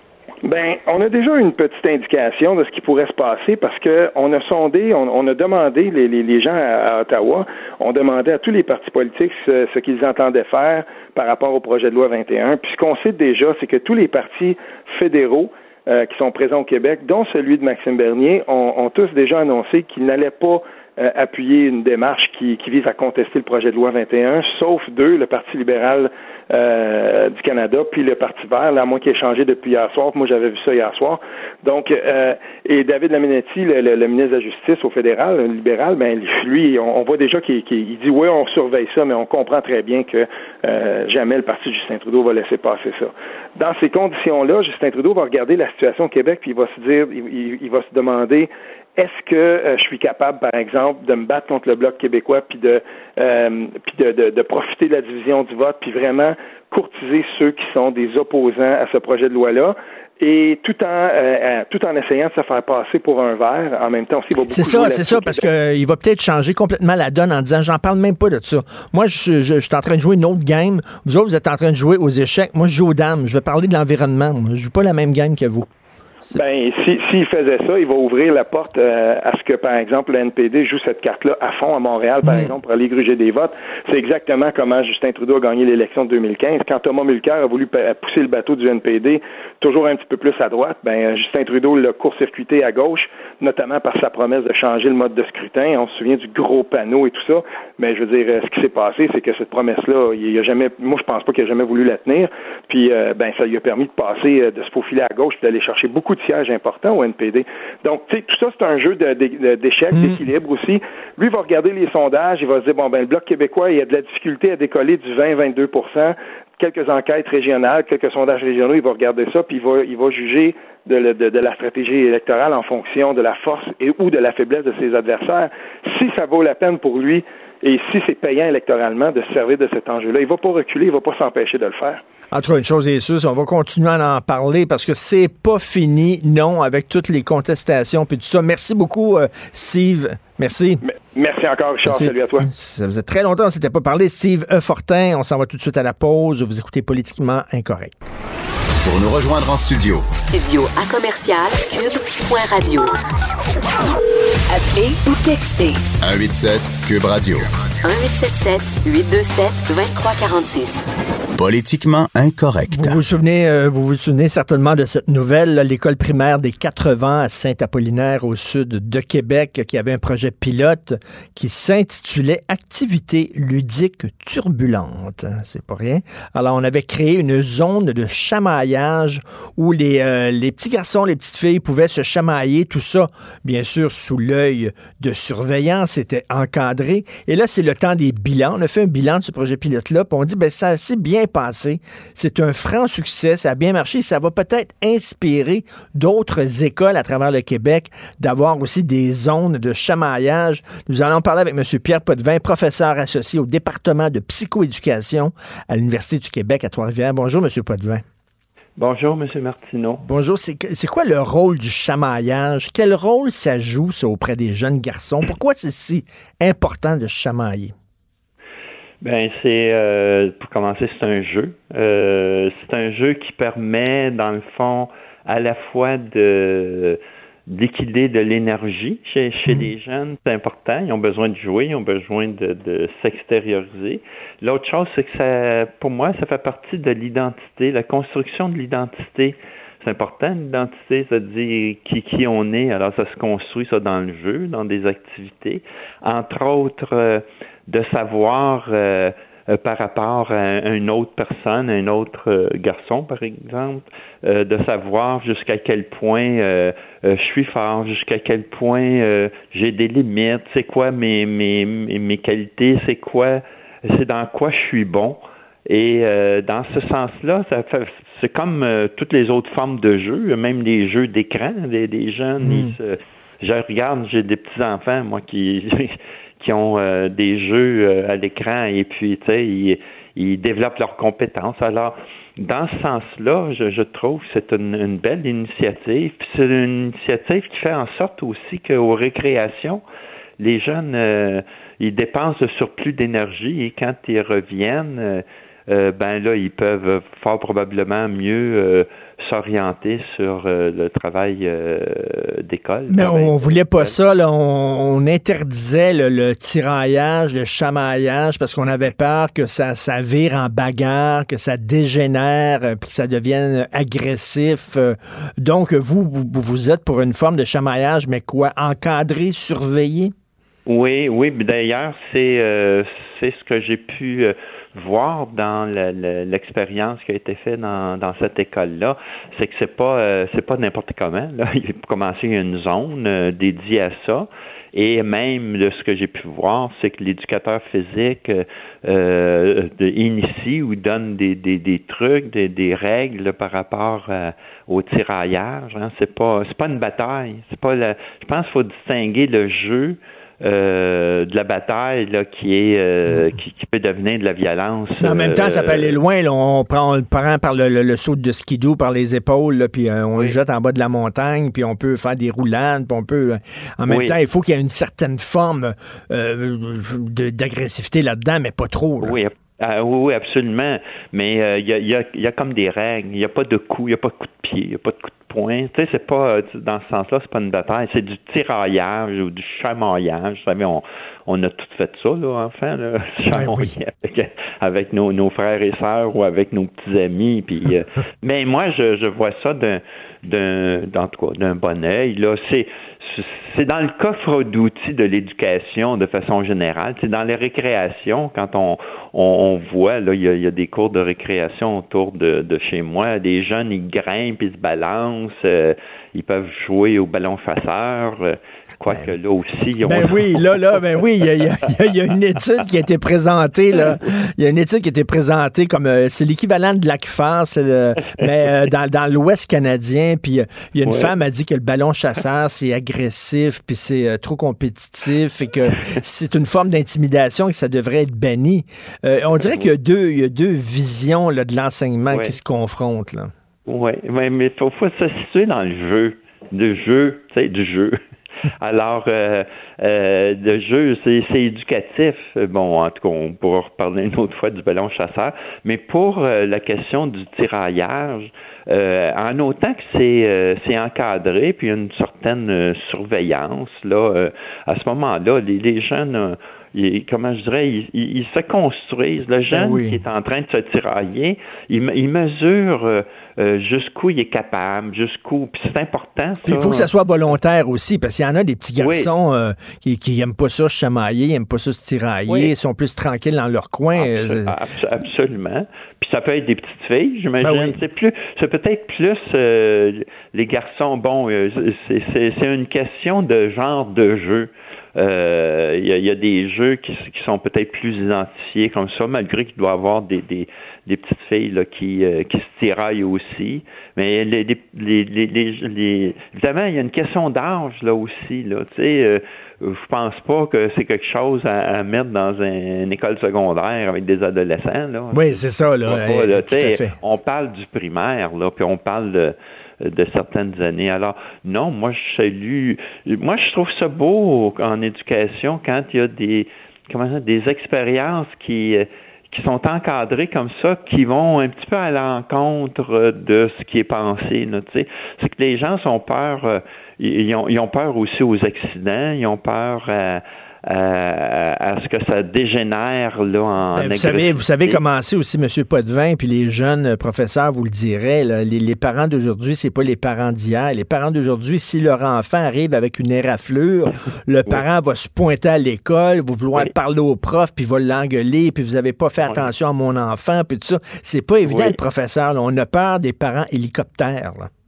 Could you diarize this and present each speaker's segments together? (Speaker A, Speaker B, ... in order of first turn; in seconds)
Speaker A: 0.4-65.5, 76.3-132.0, 140.8-142.5
Speaker B: 64.5-75.7, 132.3-140.8, 141.9-148.1, 162.7-208.0, 210.0-217.8, 272.4-272.7, 302.9-320.1, 355.0-369.2, 383.3-383.7, 409.8-433.3, 459.5-460.0, 466.4-474.6, 477.4-477.8, 505.1-507.0, 533.8-554.5
Speaker C: 148.8-150.1, 156.0-157.5, 161.4-163.0
Speaker D: 150.2-153.0, 154.5-155.9, 157.8-160.8
Speaker E: 208.8-210.1, 219.0-289.8, 290.4-304.0, 320.7-356.0, 363.9-364.2, 369.0-410.9, 420.8-421.1, 429.4-429.7, 432.1-432.4, 433.7-438.0, 438.6-466.9, 468.8-469.1, 472.3-472.5, 473.9-534.8, 549.2-549.5, 551.5-551.8